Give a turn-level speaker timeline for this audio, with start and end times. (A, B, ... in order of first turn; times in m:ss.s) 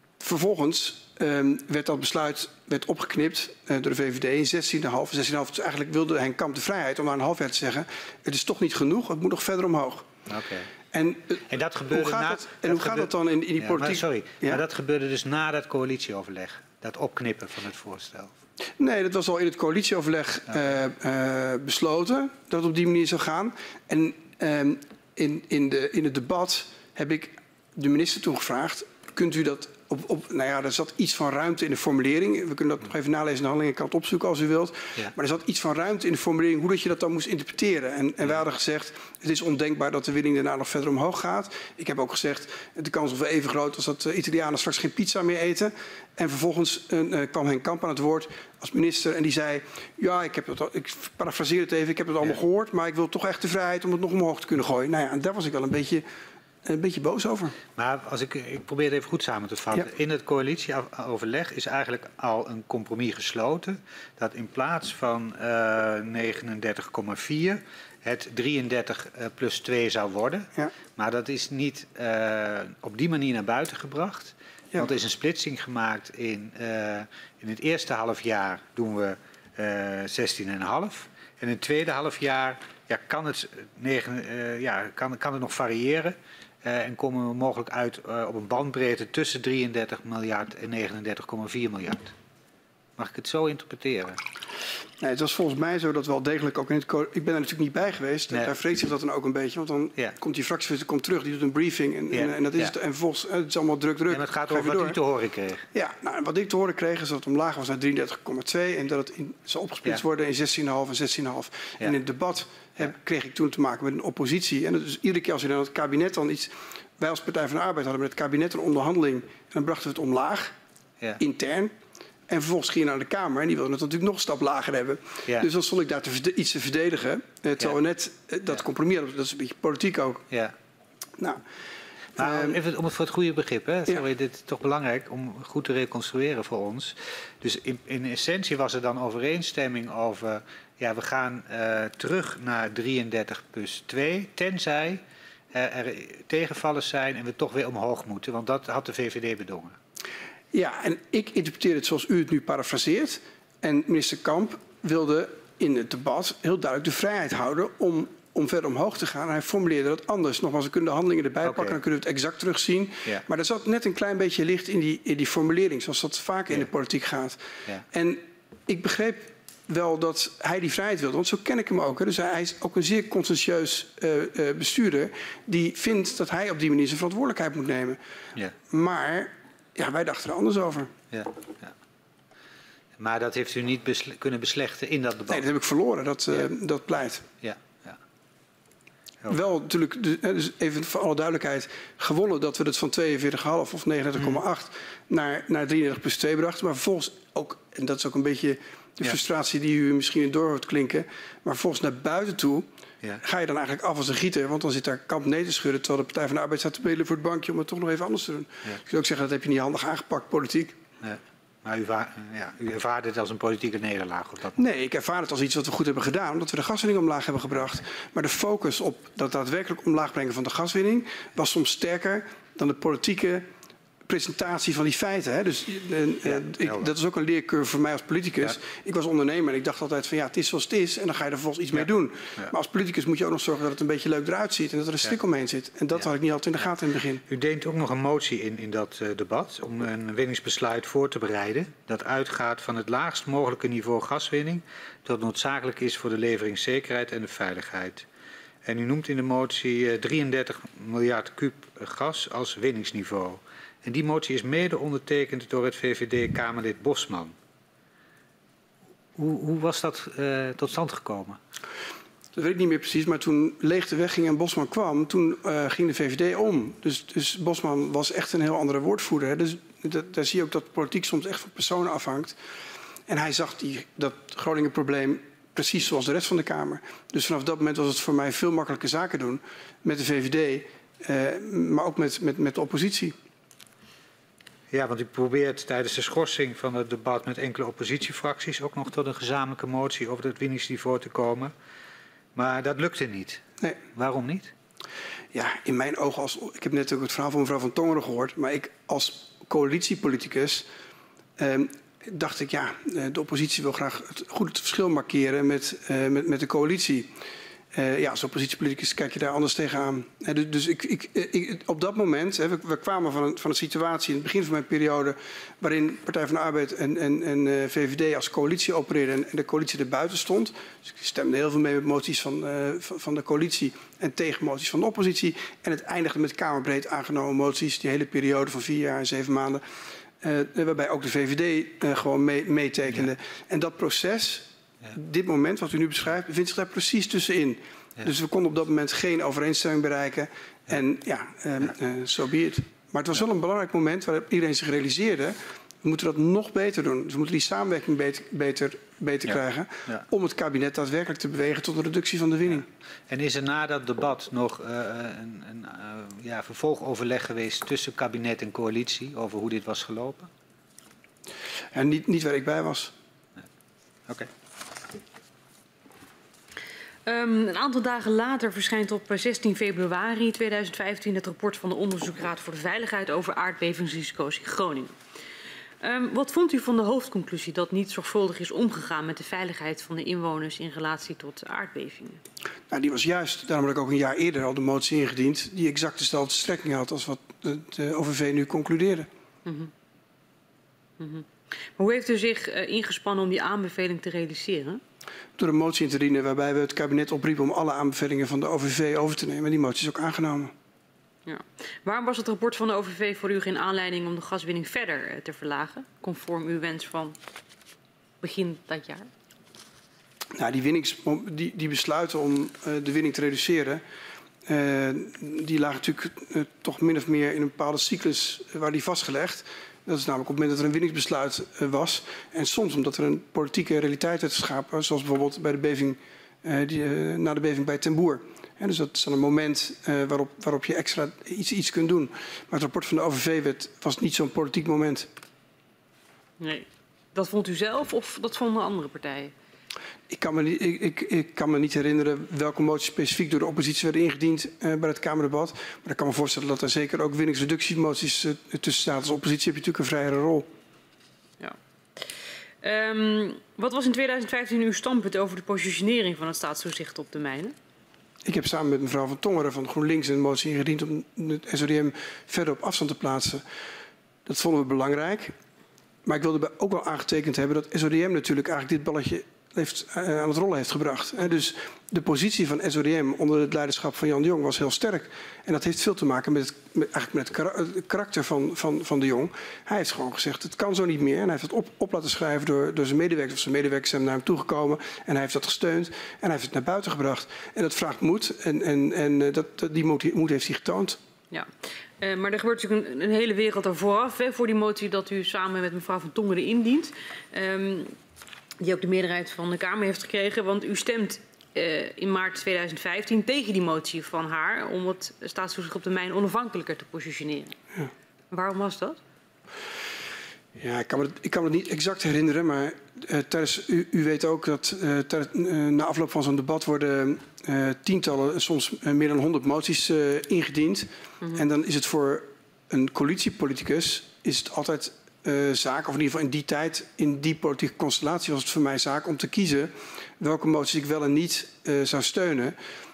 0:00.2-0:10.1 A
0:10.3-0:10.7 B
0:10.9-0:14.6 A
0:11.5-0:18.3 B
0:18.8-0:56.0 A
0:56.6-0:57.6 A
0:57.8-1:32.1 B
1:33.0-1:34.2 B
1:35.0-1:45.0 A
1:42.1-1:42.7 B
1:44.1-1:45.6 B
1:45.7-2:00.5 A
2:01.2-2:01.7 A
2:02.3-2:10.2 A
2:12.2-2:25.0 B
2:12.2-2:12.6 A
2:25.5-2:29.8 B
2:30.5-2:47.4 A
2:41.4-2:41.8 B
2:47.9-2:58.0 A
2:58.7-3:00.9 A
3:01.1-3:01.7 B
3:03.0-3:05.4 B
3:05.3-3:07.3 A
3:07.4-3:08.0 B
3:09.3-3:22.7 A
3:23.2-3:30.8 A
3:31.0-3:34.6 B
3:34.6-3:43.4 A
3:44.1-3:57.2 A
3:46.3-3:46.9 B
3:57.3-4:08.0 B
4:08.6-4:17.3 B
4:19.2-4:21.4 B
4:22.3-4:32.4 A
4:33.1-4:43.1 A
4:44.7-4:51.5 B
4:52.3-4:54.5 B
4:55.3-5:00.7 A
5:01.4-5:07.1 A
5:07.7-5:29.6 A
5:30.2-5:52.7 A
5:53.1-6:00.3 B
6:01.7-6:02.9 A
6:07.0-6:14.9 C
6:15.8-6:22.2 C
6:22.7-6:29.1 A
6:29.4-6:29.7 C
6:31.0-6:34.8 C
6:35.4-6:40.5 A
6:41.2-6:47.2 C
6:48.2-6:49.1 C
6:50.3-6:53.8 A
6:54.4-7:15.1 A
7:16.4-7:19.3 C
7:20.1-7:30.5 A
7:31.4-7:37.5 C
7:38.2-7:43.4 A
7:44.2-7:45.3 A
7:46.0-8:11.0 A
8:11.3-8:17.9 C
8:18.6-8:27.5 C
8:28.3-8:29.0 C
8:30.6-8:52.5 A